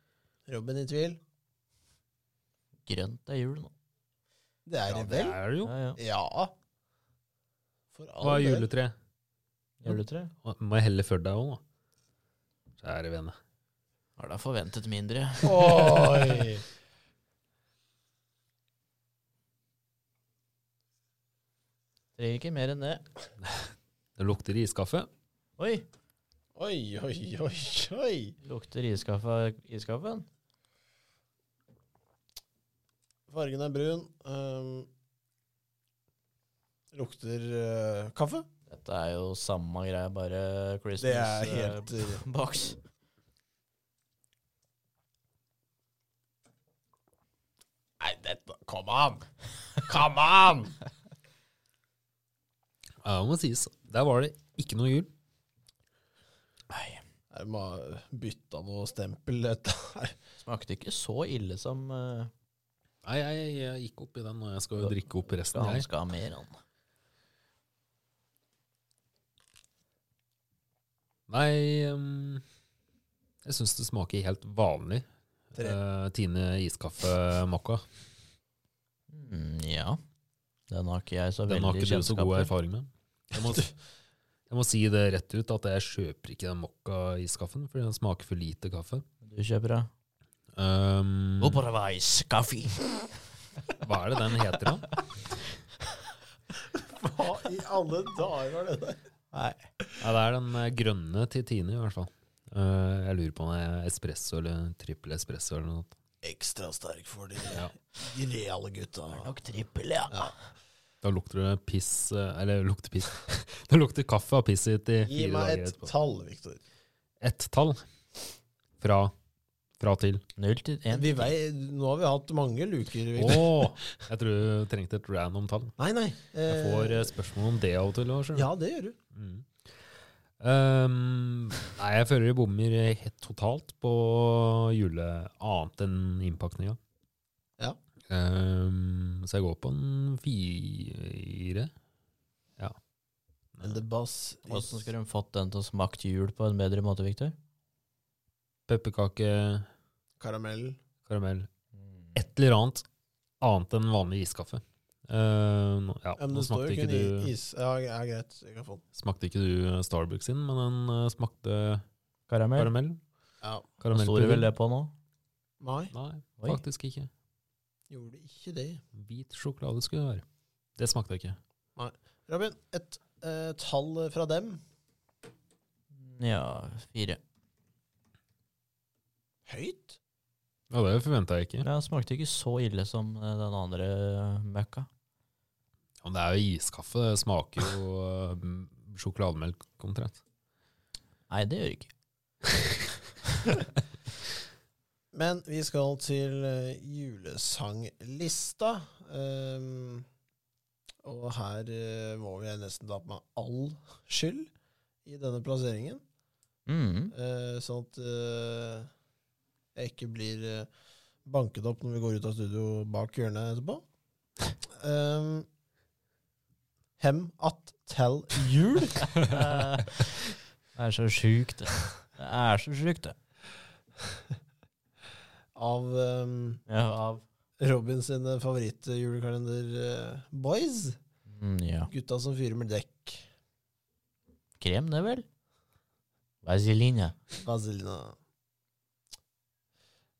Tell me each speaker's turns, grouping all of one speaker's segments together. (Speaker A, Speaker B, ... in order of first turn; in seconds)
Speaker A: 0.5-1.2, 4.7-5.4, 6.0-6.5, 7.9-8.7, 15.4-16.6, 26.6-28.4, 33.3-34.9, 36.9-38.5, 41.0-42.2, 48.0-49.3, 49.8-50.8, 57.3-60.1, 96.9-99.0, 106.2-109.3, 115.0-116.6, 120.9-123.8, 125.8-127.1, 128.3-129.0, 143.6-144.9, 150.2-150.8, 156.2-158.8, 165.6-165.9, 167.9-168.8, 171.8-174.6, 179.5-180.0, 195.1-200.1, 201.0-204.5, 205.1-206.0, 207.1-208.9, 209.8-210.7, 211.2-213.8, 214.8-215.5, 217.0-219.1, 225.6-226.6, 227.6-231.0, 231.9-233.3, 237.4-238.2
Speaker B: 2.9-3.7, 5.6-6.0, 9.8-10.3, 14.2-16.2, 22.2-23.0, 25.6-25.9, 28.4-30.3, 38.7-42.8, 56.7-57.0, 60.4-62.3, 64.8-66.5, 79.1-80.0, 80.7-82.5, 89.2-89.9, 91.4-92.9, 99.3-99.6, 109.1-110.3, 120.4-121.3, 144.5-147.3, 162.3-162.7, 163.9-164.9, 175.9-177.2, 181.6-184.9, 191.3-191.9, 206.7-207.1, 219.2-220.1, 220.8-223.2, 226.7-227.2, 231.3-231.9, 234.6-235.2, 236.4-237.2
Speaker C: 5.0-5.7, 8.2-8.9, 9.9-11.6, 12.8-13.3, 24.2-25.1, 53.0-55.1, 63.0-65.9, 71.3-72.4, 73.5-77.8, 81.5-83.7, 84.5-89.0, 90.6-91.6, 93.8-95.0, 100.0-105.9, 107.4-107.7, 111.0-115.9, 117.2-117.8, 118.8-119.1, 119.8-120.2, 123.2-125.8, 126.5-128.5, 129.2-129.5, 130.4-136.8, 138.1-141.7, 143.6-143.8, 148.7-149.7, 151.1-151.5, 152.2-152.8, 153.4-157.3, 158.9-161.8, 162.6-163.0, 163.8-164.5, 165.9-167.1, 169.0-170.2, 170.8-171.4, 180.7-181.7, 186.0-190.2